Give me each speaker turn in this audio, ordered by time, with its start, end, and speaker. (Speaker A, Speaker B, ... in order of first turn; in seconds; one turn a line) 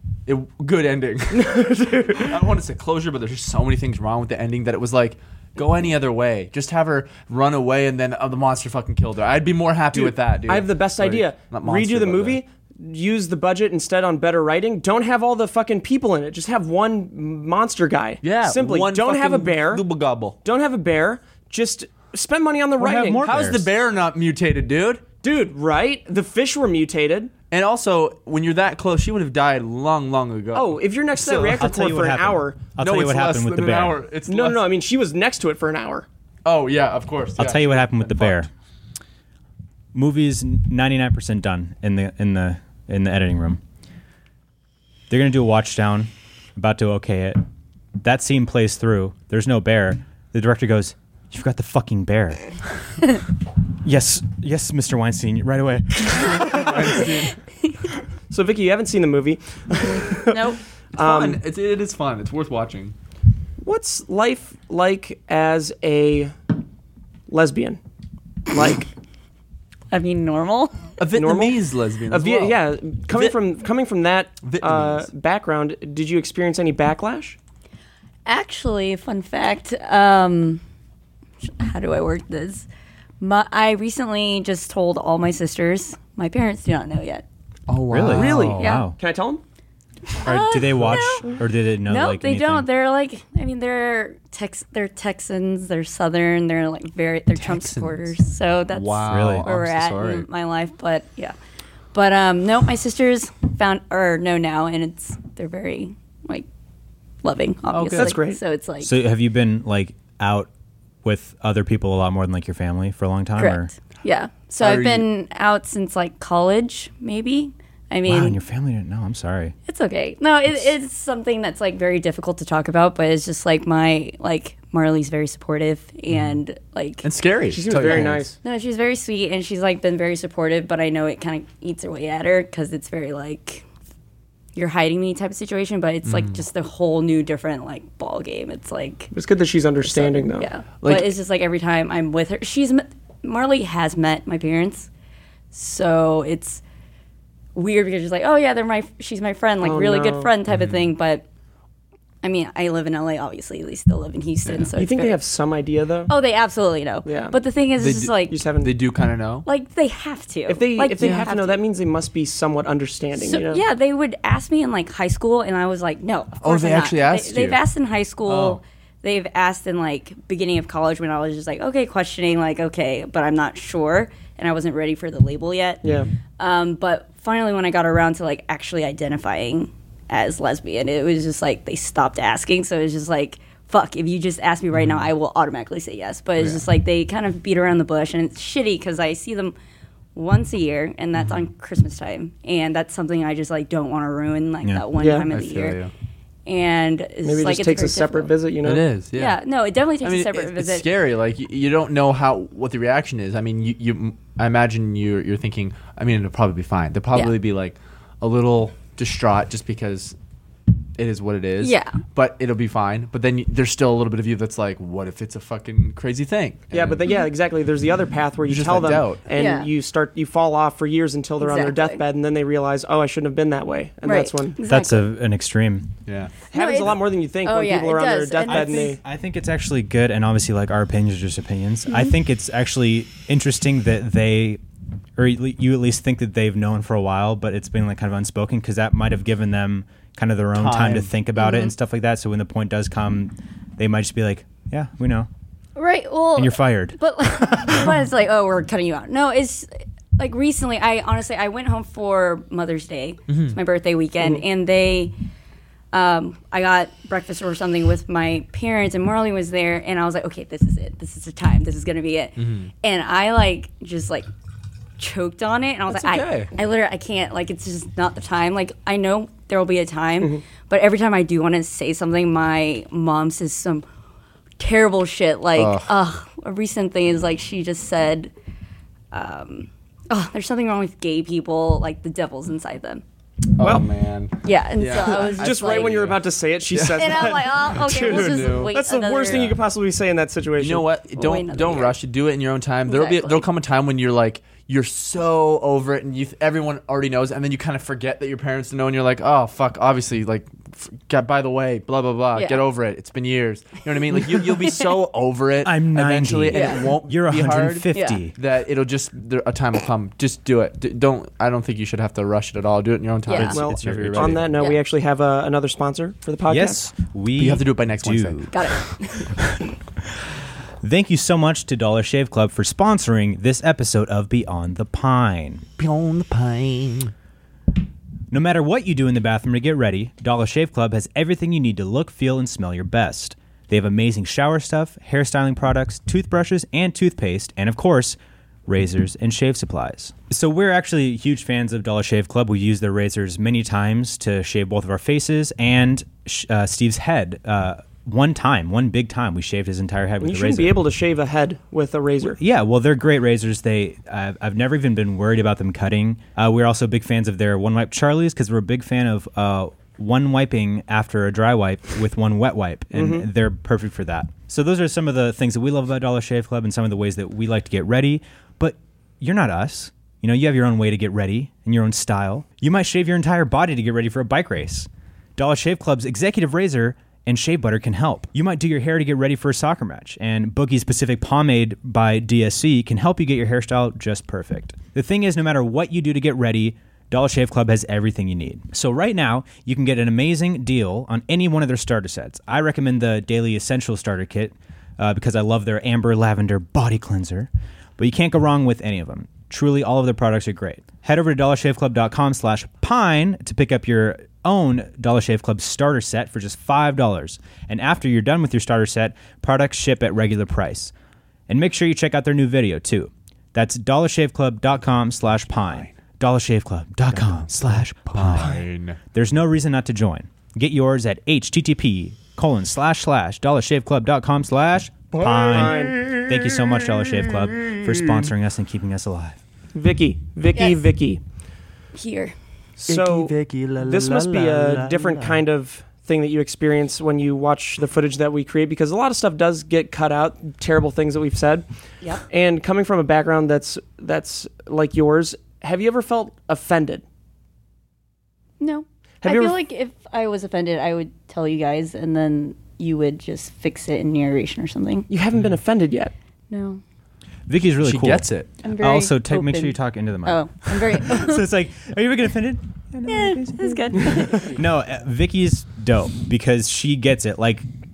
Speaker A: 0.2-12.4
Speaker B: 1.3-2.3
Speaker B: 9.9-19.8
Speaker A: 18.2-20.4
Speaker B: 20.4-23.3
Speaker C: 22.8-23.7
Speaker A: 23.2-25.0
Speaker B: 25.2-27.3
Speaker A: 27.5-31.7
Speaker B: 30.5-32.6
Speaker C: 31.6-34.0
Speaker A: 32.8-34.6
Speaker B: 34.3-36.0
Speaker A: 36.4-38.5
Speaker C: 37.4-38.5
Speaker C: 39.9-43.6
Speaker C: 45.1-47.4
Speaker C: 48.0-52.4
Speaker C: 53.8-57.0
Speaker A: 56.3-57.4
Speaker B: 58.3-60.4
Speaker D: 60.0-60.6
Speaker B: 60.9-61.4
Speaker A: 61.0-62.9
Speaker B: 63.6-66.3
Speaker B: 67.3-67.8
Speaker B: 68.5-68.9
Speaker D: 69.9-70.9
Speaker A: 71.0-72.6
Speaker B: 71.1-77.4
Speaker A: 74.4-75.1
Speaker D: 78.2-80.6
Speaker D: 81.4-82.7
Speaker D: 83.2-87.2
Speaker A: 87.7-88.6
Speaker C: 87.9-89.0
Speaker B: 88.1-89.4
Speaker D: 88.6-88.9
Speaker D: 90.2-101.3
Speaker C: 90.2-92.7
Speaker A: 97.3-98.1
Speaker A: 98.7-100.2
Speaker C: 99.1-99.5
Speaker D: 101.9-106.5
Speaker D: 107.2-108.9
Speaker A: 107.7-108.2
Speaker B: 107.9-108.4
Speaker C: 108.8-110.5
Speaker C: 111.0-113.7
Speaker D: 113.4-118.4
Speaker A: 114.6-115.0
Speaker C: 118.0-119.5
Speaker D: 119.7-127.1
Speaker A: 127.0-128.3
Speaker B: 127.5-128.4
Speaker D: 127.8-133.6
Speaker D: 134.5-139.1
Speaker A: 136.0-136.4
Speaker B: 139.1-140.5
Speaker D: 139.9-144.9
Speaker A: 140.8-141.1
Speaker D: 145.5-146.6
Speaker D: 147.5-151.2
Speaker B: 149.6-150.3
Speaker A: 150.5-150.8
Speaker D: 152.2-155.2
Speaker B: 154.8-156.1
Speaker D: 156.1-158.4
Speaker B: 157.0-157.3
Speaker A: 157.8-159.5
Speaker B: 158.3-158.7
Speaker D: 159.4-161.6
Speaker B: 160.5-163.6
Speaker A: 161.0-161.3
Speaker D: 163.2-175.8
Speaker A: 166.4-167.6
Speaker A: 168.2-168.6
Speaker B: 175.8-176.1
Speaker D: 176.4-189.5
Speaker D: 190.1-195.8
Speaker B: 195.0-195.3
Speaker A: 195.3-195.9
Speaker D: 196.4-198.3
Speaker B: 197.2-198.8
Speaker A: 198.6-199.4
Speaker D: 199.1-200.9
Speaker A: 200.0-210.2
Speaker A: 210.9-217.0
Speaker D: 211.6-212.0
Speaker B: 216.7-224.6
Speaker A: 218.5-219.2
Speaker D: 219.3-219.7
Speaker D: 221.4-222.0
Speaker D: 224.0-225.1
Speaker C: 224.6-225.9
Speaker A: 226.1-226.3
Speaker B: 226.5-229.0
Speaker D: 226.5-228.9
Speaker C: 228.5-234.6
Speaker C: 235.2-245.3
Speaker A: 240.5-241.1
Speaker D: 241.4-241.7
Speaker D: 245.8-255.1
Speaker C: 246.3-247.9
Speaker A: 253.3-253.6
Speaker D: 255.9-264.3
Speaker A: 262.4-262.7
Speaker D: 265.0-273.8
Speaker A: 265.9-266.5
Speaker D: 274.6-278.3
Speaker A: 275.6-275.9
Speaker D: 279.1-283.0
Speaker A: 283.6-288.7
Speaker B: 283.6-283.9
Speaker D: 284.4-286.1
Speaker B: 285.0-290.9
Speaker D: 286.9-289.5
Speaker A: 289.2-289.6
Speaker A: 290.6-314.6
Speaker D: 291.1-292.0
Speaker D: 292.9-293.5
Speaker D: 302.3-302.6
Speaker D: 304.1-304.9
Speaker C: 305.6-308.3
Speaker D: 306.5-306.9
Speaker D: 307.9-308.2
Speaker D: 313.2-313.6
Speaker B: 313.5-316.9
Speaker C: 313.8-314.4
Speaker C: 316.5-318.6
Speaker A: 317.4-318.5
Speaker D: 318.5-319.4
Speaker C: 319.4-319.6
Speaker C: 320.8-325.6
Speaker A: 325.8-327.1
Speaker C: 328.3-350.7
Speaker B: 350.2-352.4
Speaker C: 352.2-410.9
Speaker B: 362.9-363.3
Speaker C: 411.5-429.4
Speaker A: 415.6-415.9
Speaker A: 417.1-419.0
Speaker B: 425.2-426.0
Speaker A: 425.2-428.2
Speaker B: 429.7-431.2
Speaker D: 431.9-432.3
Speaker B: 432.8-441.6
Speaker A: 432.9-435.4
Speaker B: 442.2-447.0
Speaker D: 448.6-455.1
Speaker B: 449.2-449.6
Speaker B: 455.1-456.1
Speaker D: 456.5-456.8
Speaker C: 457.5-467.6
Speaker A: 457.8-458.5
Speaker D: 458.6-461.5
Speaker D: 463.1-464.6